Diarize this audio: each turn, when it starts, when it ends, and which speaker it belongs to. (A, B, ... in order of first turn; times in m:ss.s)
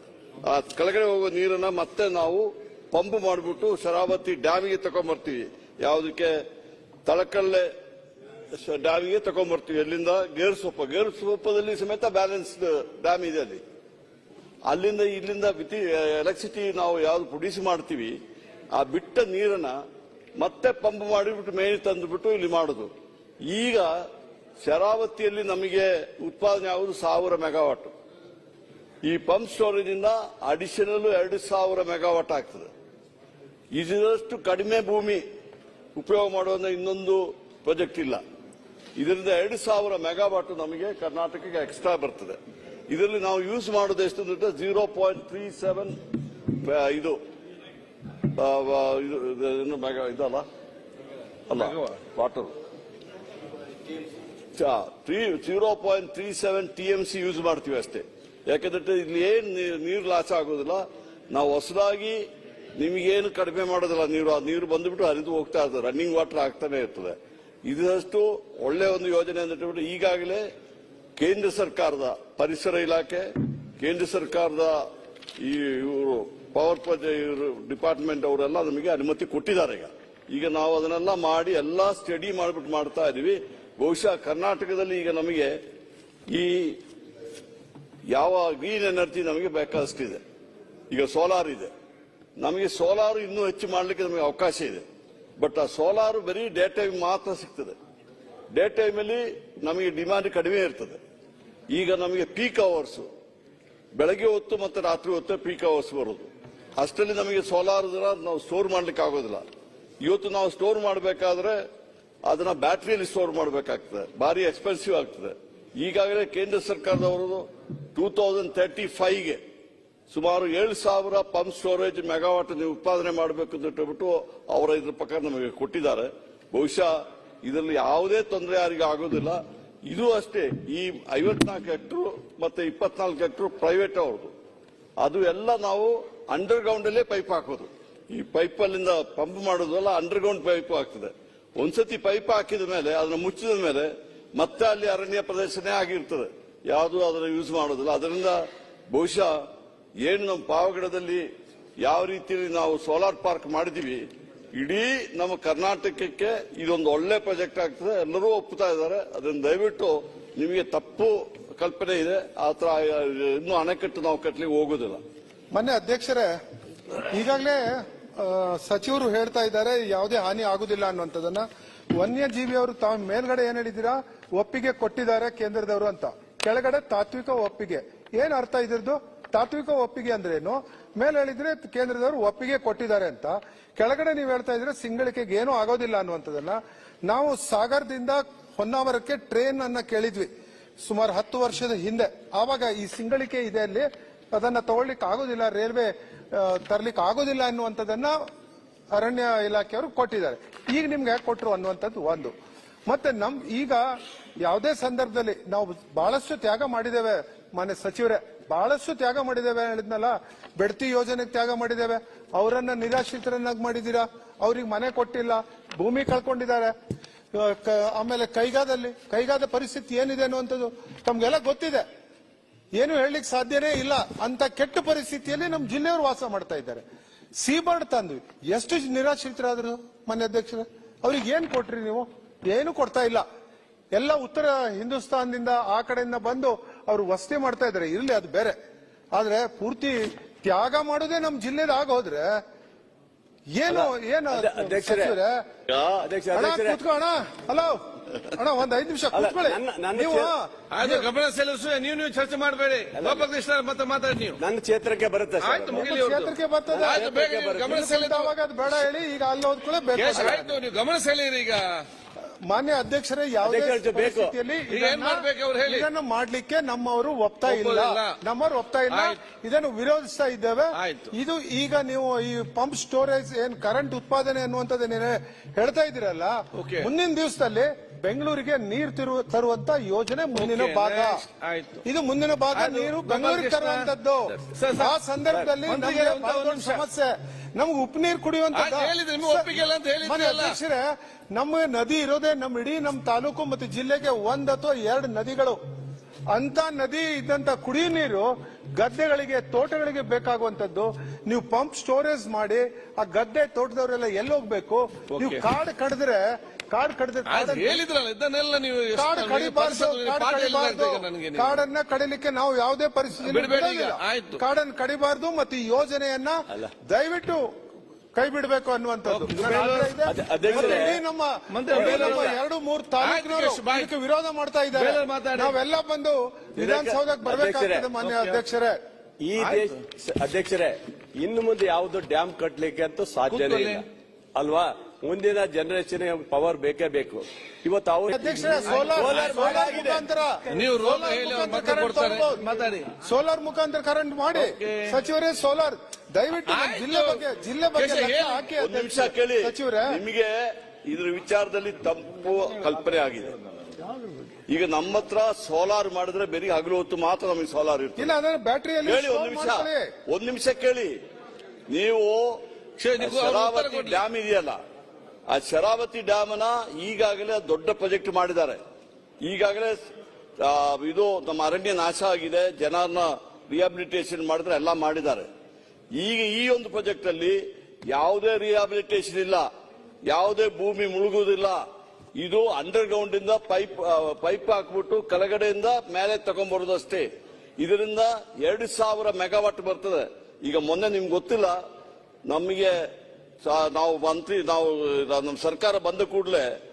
0:00.4-0:06.4 A
0:07.0-0:07.7 A
0:08.5-0:13.6 A
0:14.6-0:18.2 A
0:18.7-0:19.8 A
0:20.4-0:22.9 A
0:23.4-0:23.9 A
0:24.6-0:27.9 A
0:29.0-0:32.7 A
0:33.7-0:35.2 A
0:36.0-0:38.2 A
0:39.0-0:42.4 A
0:42.9-0:46.0 A
0:46.6-0:47.2 A
0:48.3-0:50.4 A
0:51.5-0:52.5 A
0:51.5-0:52.0 B
0:54.6-1:02.2 A
1:02.8-1:10.4 A
1:11.2-1:13.2 A
1:13.8-1:14.8 A
1:15.4-1:25.6 A
1:26.3-1:26.8 A
1:28.1-1:30.2 A
1:30.9-1:31.7 A
1:32.4-1:34.8 A
1:35.4-1:37.8 A
1:38.5-1:41.0 A
1:41.7-1:43.1 A
1:43.9-1:49.4 A
1:50.0-1:51.6 A
1:52.2-1:59.4 A
2:00.1-2:06.9 A
2:07.4-2:14.3 A
2:15.0-2:29.3 A
2:30.0-2:31.2 A
2:31.8-2:45.0 A
2:45.5-2:46.3 C
2:47.1-2:47.6 C
2:48.2-2:51.4 C
2:52.0-3:10.3 C
3:10.8-3:18.2 C
3:18.9-3:22.3 C
3:22.8-3:23.8 C
3:24.4-3:36.7 C
3:37.3-3:41.8 C
3:42.7-3:46.8 C
3:47.4-3:53.2 C
3:53.9-3:58.5 C
3:59.1-4:02.4 C
4:03.5-4:05.4 C
4:03.7-4:05.2 D
4:05.7-4:06.1 A
4:06.0-4:06.8 D
4:06.3-4:11.1 C
4:09.1-4:10.3 D
4:10.7-4:14.4 B
4:12.9-4:13.3 D
4:14.4-4:15.9 D
4:15.4-4:18.3 B
4:15.7-4:17.0 C
4:16.7-4:17.7 D
4:17.6-4:20.4 C
4:19.9-4:21.8 B
4:22.4-4:41.2 C
4:23.4-4:24.3 D
4:24.7-4:25.9 B
4:27.4-4:28.1 B
4:28.9-4:29.2 B
4:30.7-4:31.1 B
4:36.5-4:36.9 B
4:40.4-4:41.8 B
4:41.8-4:55.6 C
4:42.5-4:46.8 B
4:48.5-4:50.5 B
4:56.3-5:07.8 C
5:05.1-5:05.4 B
5:07.3-5:11.6 B
5:08.9-5:17.4 C
5:13.2-5:14.4 B
5:18.1-5:28.8 C
5:19.0-5:20.0 B
5:20.0-5:21.0 D
5:20.5-5:20.9 B
5:21.5-5:22.4 B
5:21.7-5:22.3 D
5:23.0-5:23.9 B
5:24.7-5:25.6 B
5:26.6-5:27.9 D
5:28.0-5:28.4 B
5:29.2-5:40.0 D
5:29.4-5:29.8 B
5:33.3-5:33.8 B
5:38.1-5:42.4 C
5:38.6-5:39.8 B
5:40.5-5:42.9 B
5:43.0-5:50.0 C
5:44.3-5:44.9 B
5:46.5-5:47.2 B
5:47.7-5:48.5 B
5:48.6-5:53.3 A
5:54.5-5:58.1 A
5:58.0-5:59.9 C
5:58.8-6:00.9 A
6:01.7-6:02.4 A
6:02.8-6:04.0 B
6:03.0-6:04.6 A
6:05.3-6:08.6 A
6:09.2-6:09.8 A
6:10.4-6:15.3 A
6:15.9-6:19.4 A
6:20.0-6:21.6 A
6:22.2-6:27.1 A
6:27.6-6:31.6 A
6:32.3-6:32.7 A
6:33.4-6:36.4 A